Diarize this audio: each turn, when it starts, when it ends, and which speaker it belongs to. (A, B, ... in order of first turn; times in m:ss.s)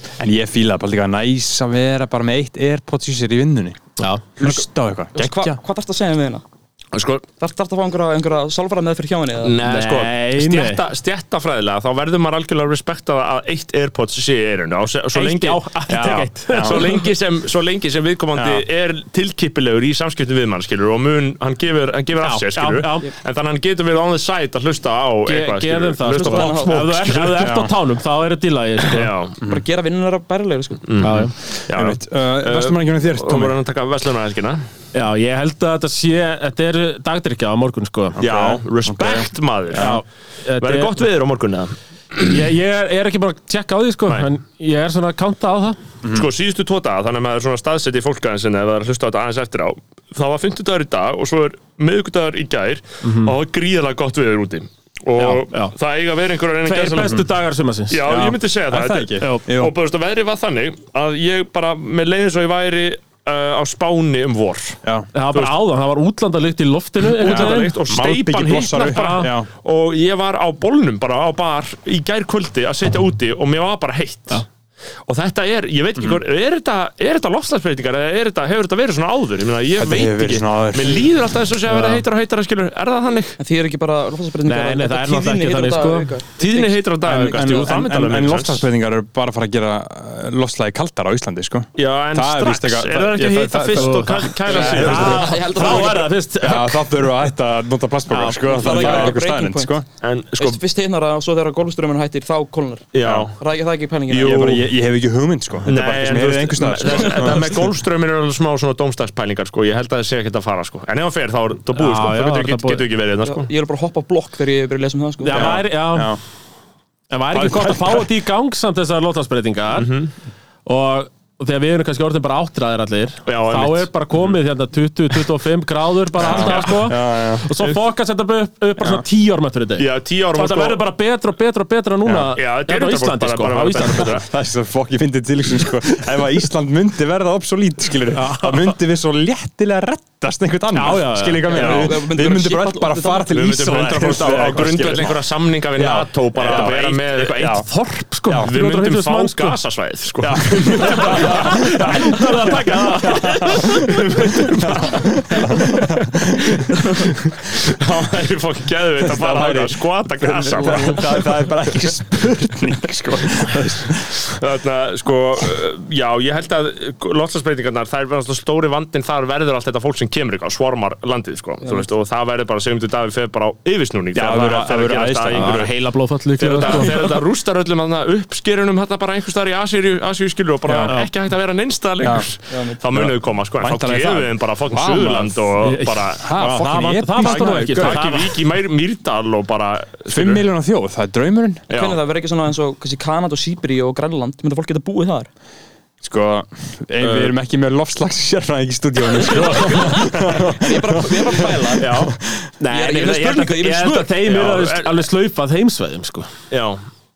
0:00.2-0:03.8 A
0:04.0-0:04.2 B
0:04.4-0:05.6 A
0:04.4-0:06.4 C
0:06.9-0:07.2 D
0:07.4-0:09.6 C
0:09.4-0:15.6 D
0:09.6-0:10.8 B
0:15.1-0:17.0 B
0:15.9-0:17.0 A
0:16.5-0:27.5 D
0:18.3-0:18.6 A
0:22.2-0:23.1 B
0:25.3-0:29.1 B
0:26.0-0:26.9 C
0:27.4-0:27.7 A
0:28.9-0:29.4 D
0:29.4-0:30.8 C
0:30.8-0:34.6 D
0:31.0-0:31.3 B
0:31.7-0:33.5 A
0:34.9-0:38.2 B
0:38.2-0:40.0 A
0:38.2-0:40.0 D
0:39.7-0:41.0 B
0:40.6-0:42.3 D
0:42.2-0:45.8 B
0:46.1-0:57.3 D
0:53.0-0:53.3 B
0:55.2-0:55.7 B
0:56.6-0:58.2 B
0:57.9-1:04.8 D
0:58.0-0:59.7 A
0:59.2-0:59.5 B
1:05.1-1:07.8 B
1:07.1-1:14.4 D
1:07.2-1:09.5 A
1:08.9-1:09.3 B
1:15.0-1:23.4 D
1:19.8-1:21.1 A
1:21.7-1:22.0 B
1:23.4-1:27.8 C
1:24.4-1:26.1 B
1:26.4-1:28.6 D
1:27.0-1:35.3 A
1:31.8-1:35.9 D
1:33.7-1:37.1 B
1:34.4-1:36.1 C
1:36.4-1:39.8 A
1:38.1-1:39.1 B
1:38.5-1:39.8 C
1:40.0-1:40.6 D
1:40.4-1:44.5 C
1:42.9-1:43.3 D
1:43.0-1:43.3 A
1:44.1-1:44.7 D
1:44.2-1:47.6 A
1:45.6-1:53.5 D
1:51.7-1:52.9 B
1:53.2-1:55.6 C
1:55.2-1:56.2 B
1:55.3-1:56.2 A
1:57.1-2:00.0 B
1:57.3-1:58.1 A
1:59.7-2:00.1 D
2:00.6-2:14.2 B
2:03.2-2:04.3 D
2:06.2-2:07.4 A
2:06.2-2:06.9 D
2:09.8-2:10.8 D
2:12.0-2:12.3 A
2:12.4-2:14.3 D
2:14.1-2:27.7 A
2:18.1-2:18.7 B
2:20.7-2:21.8 B
2:21.5-2:23.3 C
2:21.5-2:21.9 D
2:23.3-2:27.7 D
2:26.4-2:29.6 B
2:28.2-2:28.5 A
2:28.3-2:31.9 D
2:30.2-2:36.8 A
2:30.7-2:34.8 B
2:34.2-2:34.7 D
2:35.5-2:35.8 B
2:37.5-2:41.3 D
2:39.0-2:44.2 A
2:44.2-2:55.7 D
2:54.1-2:55.7 A
2:55.3-2:57.2 B
2:56.4-3:06.4 D
3:00.6-3:00.9 A
3:00.8-3:01.1 B
3:02.0-3:02.3 A
3:02.5-3:02.8 C
3:02.9-3:08.3 A
3:06.3-3:08.3 B
3:07.2-3:10.4 D
3:10.1-3:11.6 A
3:11.7-3:12.0 D
3:11.7-3:15.3 C
3:16.0-3:22.5 A
3:17.0-3:17.3 D
3:19.2-3:21.9 C
3:19.6-3:19.9 B
3:21.8-3:22.2 D
3:22.6-3:26.3 B
3:22.7-3:24.4 C
3:24.2-3:25.0 D
3:26.5-3:26.8 D